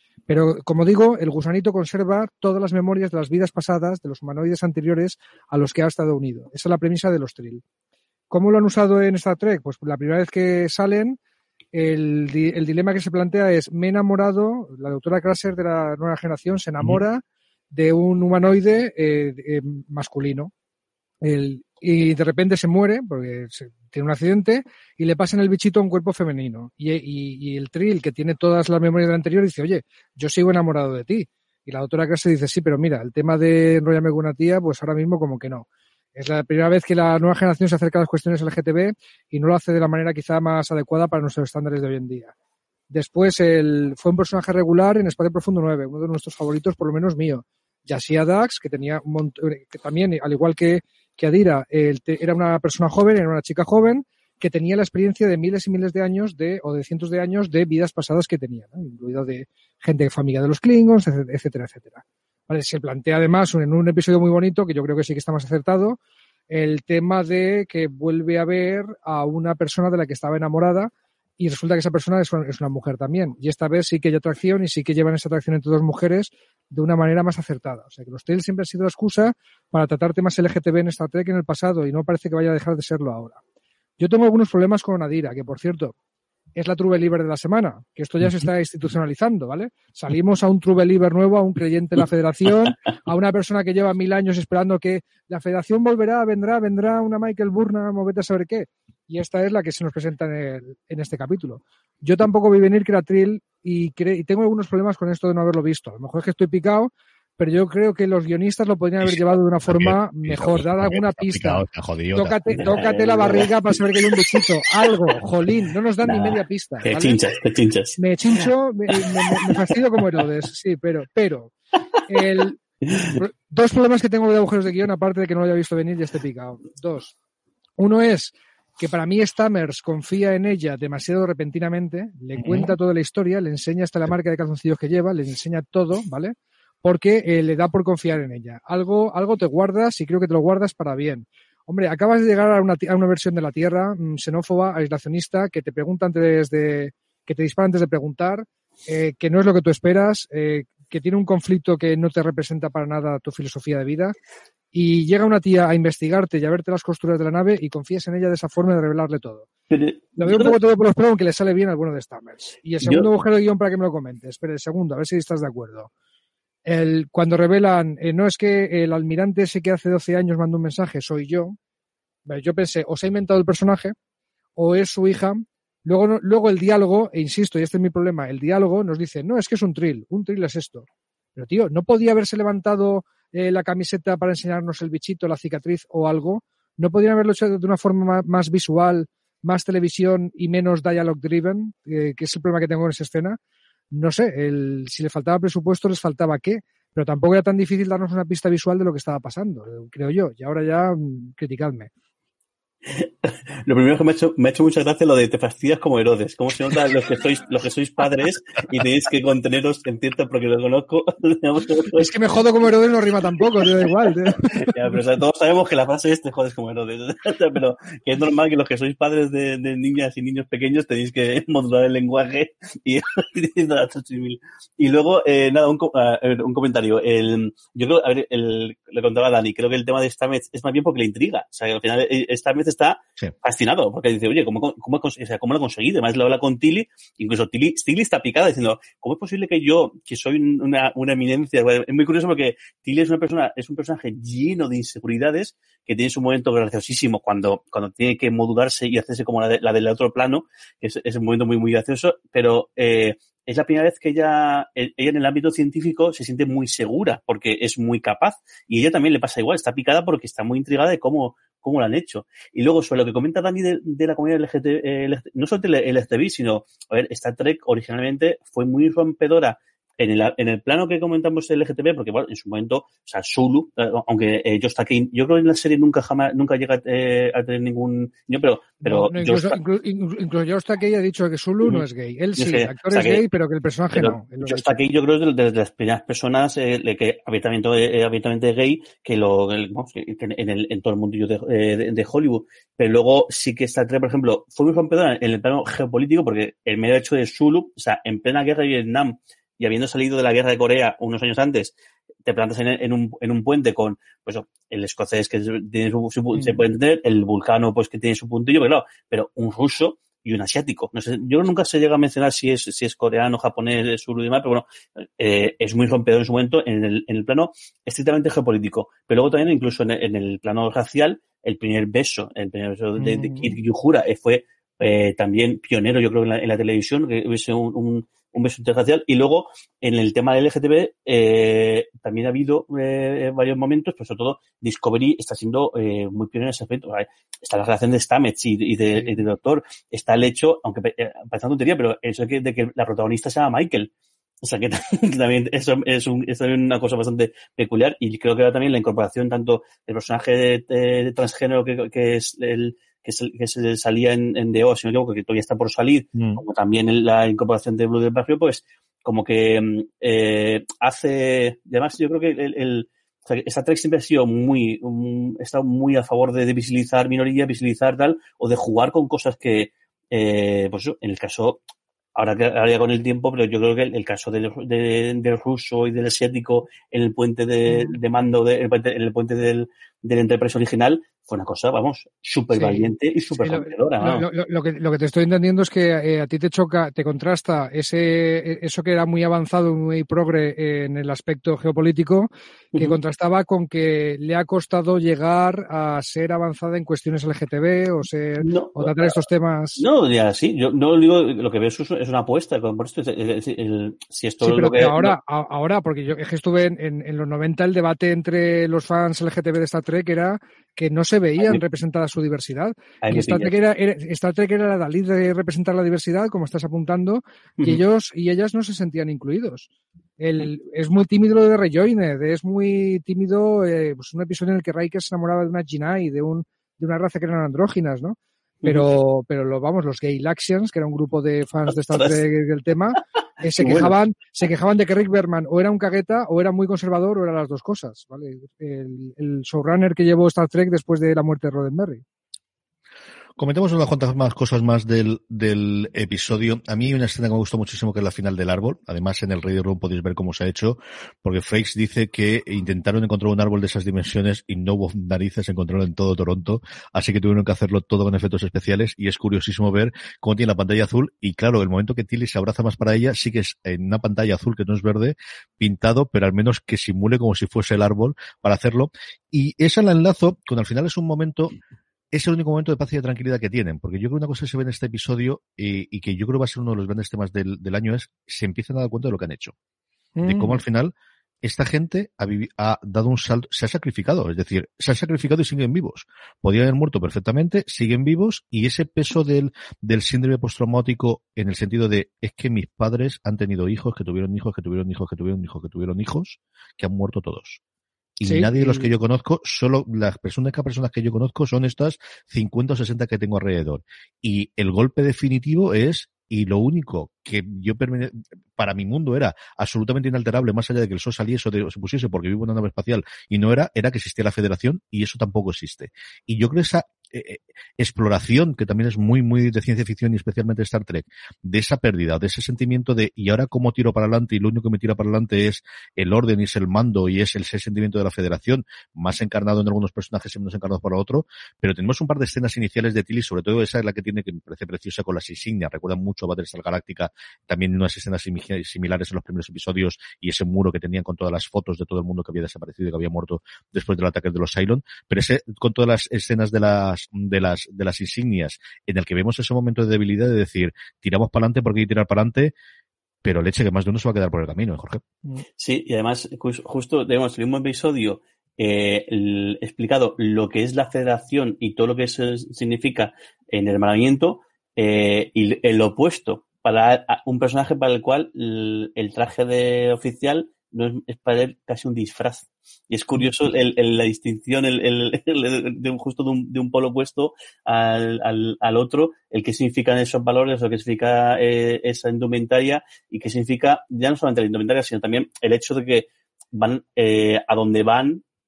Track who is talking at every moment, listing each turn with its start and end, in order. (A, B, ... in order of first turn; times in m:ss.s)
0:00.3-0:07.6 A
0:08.3-0:11.2 A
0:11.7-0:20.5 A
0:21.2-0:42.3 A
0:42.9-1:06.0 A
1:06.5-1:23.4 A
1:24.0-1:25.9 A
1:26.6-1:57.2 A
1:49.0-1:52.7 B
1:52.5-1:53.5 C
1:54.0-1:54.4 C
1:56.0-1:58.0 C
1:58.0-2:01.5 A
1:58.9-1:59.6 C
2:02.1-2:02.6 A
2:02.8-2:03.2 C
2:03.1-2:07.1 A
2:07.8-2:34.2 A
2:12.4-2:12.7 B
2:34.7-2:39.5 A
2:39.7-2:40.6 C
2:40.2-2:45.9 A
2:42.8-2:43.1 C
2:46.6-2:51.6 A
2:52.2-2:53.9 A
2:54.6-3:13.4 A
3:13.9-3:21.9 A
3:22.8-3:32.1 C
3:31.9-3:34.8 A
3:33.6-3:33.9 C
3:34.4-4:39.6 C
4:38.8-4:44.7 A
4:42.4-4:43.2 C
4:43.9-5:01.7 C
5:02.2-5:14.6 C
5:06.3-5:06.6 A
5:15.2-5:43.9 C
5:23.0-5:23.6 A
5:39.0-5:39.2 A
5:44.4-6:11.6 C
5:56.2-5:56.4 B
6:12.1-6:24.2 C
6:17.7-6:18.0 A
6:22.5-6:39.8 A
6:38.4-6:39.2 C
6:39.8-6:45.2 C
6:44.4-7:22.0 A
6:53.0-6:53.5 C
7:11.7-7:12.2 C
7:13.6-7:13.9 C
7:23.4-7:51.5 B
7:52.1-7:59.5 B
8:00.2-8:00.6 A
8:00.2-8:17.6 B
8:18.2-9:12.5 B
8:18.2-8:18.9 A
9:13.2-9:15.0 B
9:15.6-9:48.2 C